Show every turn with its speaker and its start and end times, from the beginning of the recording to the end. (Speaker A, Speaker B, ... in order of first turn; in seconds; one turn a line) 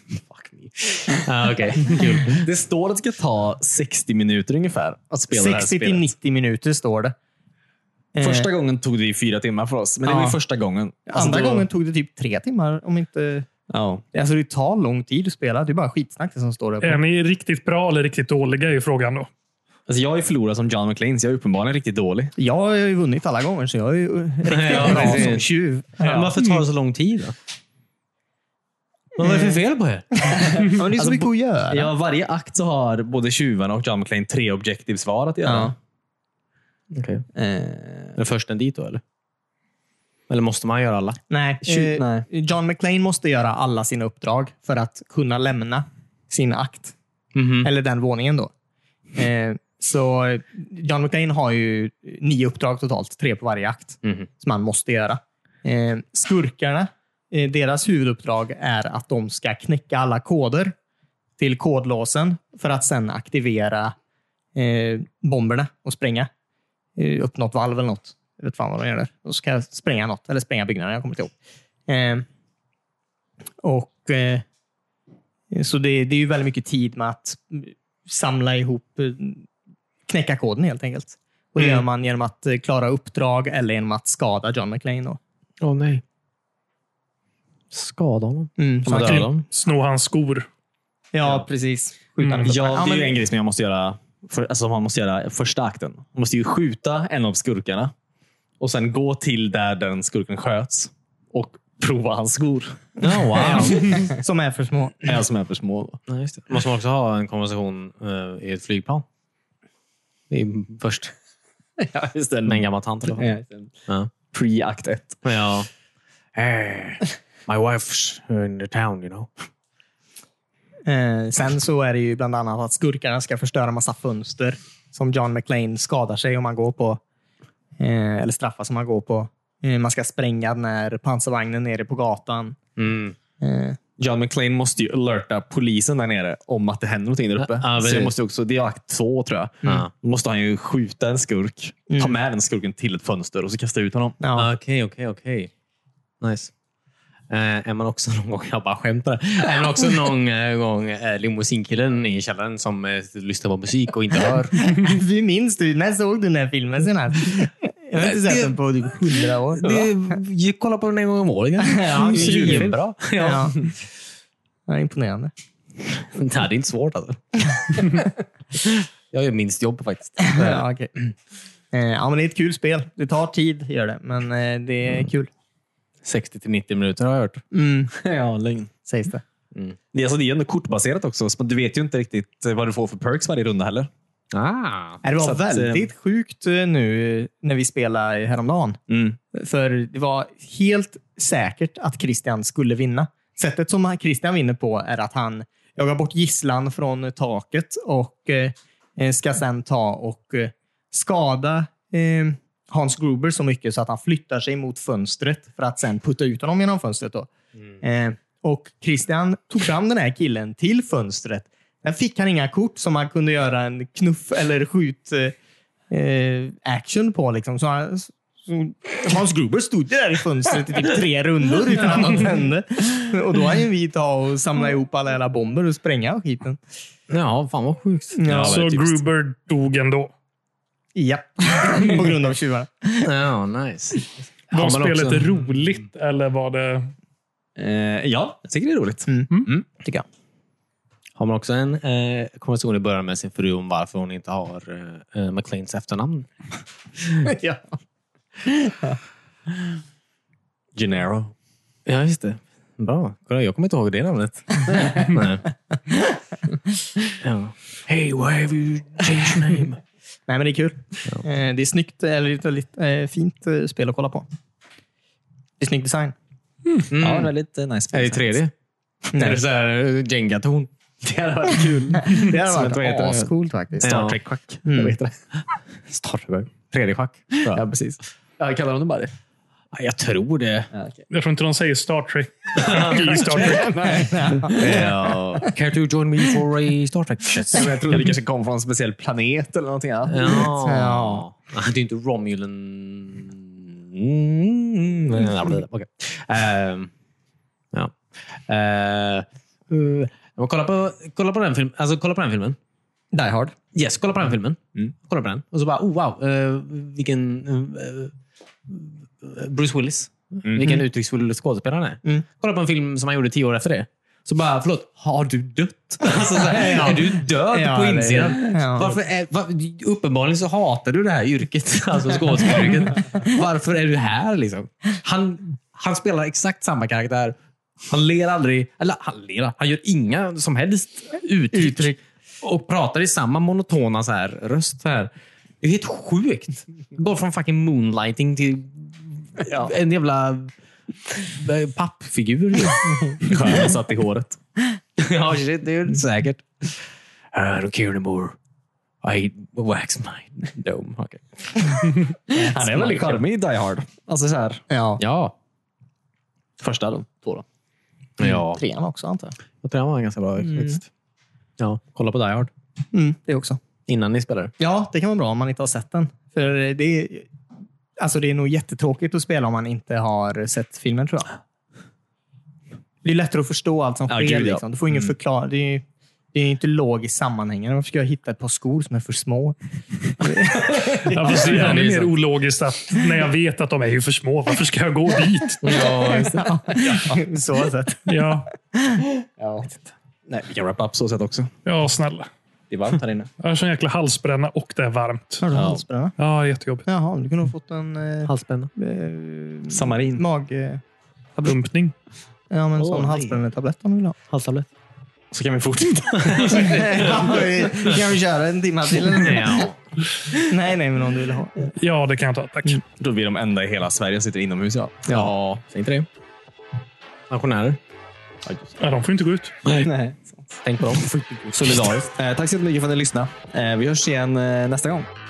Speaker A: 0.4-2.5
Speaker B: 1.9-6.1
Speaker C: 5.3-7.2
Speaker C: 8.2-8.5
Speaker B: 8.2-11.7
Speaker C: 10.1-10.4
Speaker C: 11.1-13.5
Speaker B: 13.7-14.0
Speaker C: 14.1-17.0
Speaker D: 16.8-19.3
Speaker B: 19.9-22.3
Speaker C: 22.4-26.3
Speaker A: 24.5-25.5
Speaker B: 24.7-25.4
Speaker B: 26.0-26.3
Speaker A: 26.0-27.4
Speaker A: 29.2-30.1
Speaker C: 29.2-29.6
Speaker C: 30.2-31.9
Speaker B: 30.4-35.8
Speaker C: 35.5-35.8
Speaker A: 36.9-37.3
Speaker B: 37.3-38.2
Speaker A: 38.1-39.0
Speaker A: 40.3-41.2
Speaker C: 41.3-46.9
Speaker B: 41.6-42.3
Speaker A: 47.4-47.7
Speaker C: 47.6-48.5
Speaker C: 49.2-60.8
Speaker A: 54.0-54.3
Speaker C: 61.4-63.9
Speaker C: 64.5-66.3
Speaker C: 67.0-71.3
Speaker C: 71.9-72.3
Speaker C: 73.6-74.5
Speaker C: 75.5-79.5
Speaker C: 80.1-85.2
Speaker A: 85.6-86.0
Speaker A: 87.7-89.5
Speaker C: 88.6-89.3
Speaker D: 88.9-90.5
Speaker C: 91.1-93.2
Speaker D: 92.2-92.6
Speaker B: 92.4-97.9
Speaker B: 98.6-102.8
Speaker A: 103.0-104.1
Speaker C: 103.4-105.2
Speaker B: 103.4-104.0
Speaker B: 105.0-106.0
Speaker A: 106.1-109.1
Speaker A: 110.3-111.1
Speaker B: 111.8-113.7
Speaker A: 112.5-113.3
Speaker B: 114.3-115.2
Speaker A: 115.2-115.7
Speaker A: 116.3-119.3
Speaker C: 120.9-127.0
Speaker C: 127.8-132.6
Speaker A: 132.8-133.2
Speaker C: 133.4-133.8
Speaker B: 134.0-144.2
Speaker A: 137.4-138.1
Speaker A: 139.6-139.9
Speaker C: 141.9-142.2
Speaker C: 144.2-144.5
Speaker A: 144.3-145.5
Speaker A: 146.2-146.5
Speaker A: 147.3-154.7
Speaker C: 154.6-159.9
Speaker A: 158.0-163.5
Speaker C: 161.6-163.7
Speaker B: 162.1-162.8
Speaker C: 164.7-165.3
Speaker A: 166.0-167.8
Speaker A: 168.6-170.7
Speaker C: 170.2-170.9
Speaker C: 171.7-175.3
Speaker A: 176.0-177.4
Speaker C: 177.5-177.9
Speaker B: 177.9-178.7
Speaker C: 178.9-179.2
Speaker B: 179.9-183.9
Speaker A: 184.3-185.0
Speaker C: 185.0-188.8
Speaker B: 185.2-185.9
Speaker B: 188.9-189.2
Speaker C: 189.3-207.3
Speaker C: 207.8-215.3
Speaker C: 215.9-226.6
Speaker A: 227.1-228.4
Speaker C: 228.2-228.6
Speaker B: 228.3-229.0
Speaker D: 228.3-230.1
Speaker C: 230.9-233.1
Speaker A: 233.0-235.3
Speaker D: 234.5-236.9
Speaker B: 237.6-239.6
Speaker C: 239.1-240.1
Speaker A: 241.2-246.3
Speaker A: 247.0-247.3
Speaker C: 247.2-247.7
Speaker C: 248.5-248.8
Speaker A: 250.8-251.3
Speaker A: 251.9-255.5
Speaker A: 257.2-259.8
Speaker C: 260.3-264.3
Speaker C: 265.6-266.1
Speaker A: 266.9-267.3
Speaker B: 267.0-268.4
Speaker A: 267.9-268.5
Speaker A: 269.1-270.7
Speaker C: 269.1-269.4
Speaker B: 271.0-275.2
Speaker C: 272.1-273.9
Speaker A: 273.8-274.2
Speaker C: 274.7-274.9
Speaker A: 275.9-277.6
Speaker B: 277.4-279.1
Speaker A: 279.7-280.7
Speaker B: 280.7-281.1
Speaker D: 281.1-284.0
Speaker A: 282.6-283.5
Speaker B: 283.3-284.9
Speaker C: 283.6-284.9
Speaker A: 284.5-288.1
Speaker B: 287.5-290.5
Speaker A: 290.1-296.9
Speaker C: 290.4-291.2
Speaker A: 297.7-302.6
Speaker C: 303.1-303.6
Speaker A: 303.7-308.1
Speaker A: 308.7-327.4
Speaker B: 310.4-310.7
Speaker C: 316.3-318.9
Speaker A: 327.9-340.5
Speaker C: 331.5-332.0
Speaker A: 341.1-343.3
Speaker B: 343.2-344.4
Speaker A: 345.0-348.4
Speaker A: 349.0-351.9
Speaker B: 352.3-354.6
Speaker C: 352.3-353.2
Speaker C: 354.7-355.0
Speaker A: 355.0-355.4
Speaker B: 356.6-357.4
Speaker A: 358.2-358.6
Speaker C: 358.2-359.4
Speaker A: 359.6-360.9
Speaker C: 360.5-360.8
Speaker A: 361.6-362.5
Speaker C: 362.9-363.6
Speaker A: 363.9-364.5
Speaker C: 364.6-367.3
Speaker C: 368.0-371.4
Speaker C: 373.0-381.6
Speaker B: 374.1-374.6
Speaker D: 381.1-385.9
Speaker A: 381.1-382.1
Speaker A: 385.6-386.6
Speaker C: 385.7-388.2
Speaker D: 388.1-388.5
Speaker C: 388.8-389.1
Speaker B: 389.4-389.7
Speaker B: 390.3-391.5
Speaker D: 391.6-392.3
Speaker B: 392.7-393.3
Speaker D: 393.4-395.5
Speaker C: 395.4-396.1
Speaker D: 396.2-396.9
Speaker C: 396.9-400.8
Speaker A: 398.3-398.7
Speaker B: 399.7-400.2
Speaker D: 401.4-401.9
Speaker C: 402.5-404.2
Speaker A: 402.8-403.4
Speaker A: 404.3-404.7
Speaker B: 405.3-406.8
Speaker A: 406.1-408.0
Speaker C: 406.5-409.7
Speaker A: 409.2-409.8
Speaker C: 410.4-411.7
Speaker D: 411.7-412.8
Speaker B: 413.0-415.6
Speaker A: 415.1-416.1
Speaker A: 417.3-417.8
Speaker B: 418.4-418.7
Speaker D: 418.8-419.6
Speaker A: 419.6-419.9
Speaker B: 419.8-420.4
Speaker A: 420.6-422.1
Speaker B: 421.5-425.1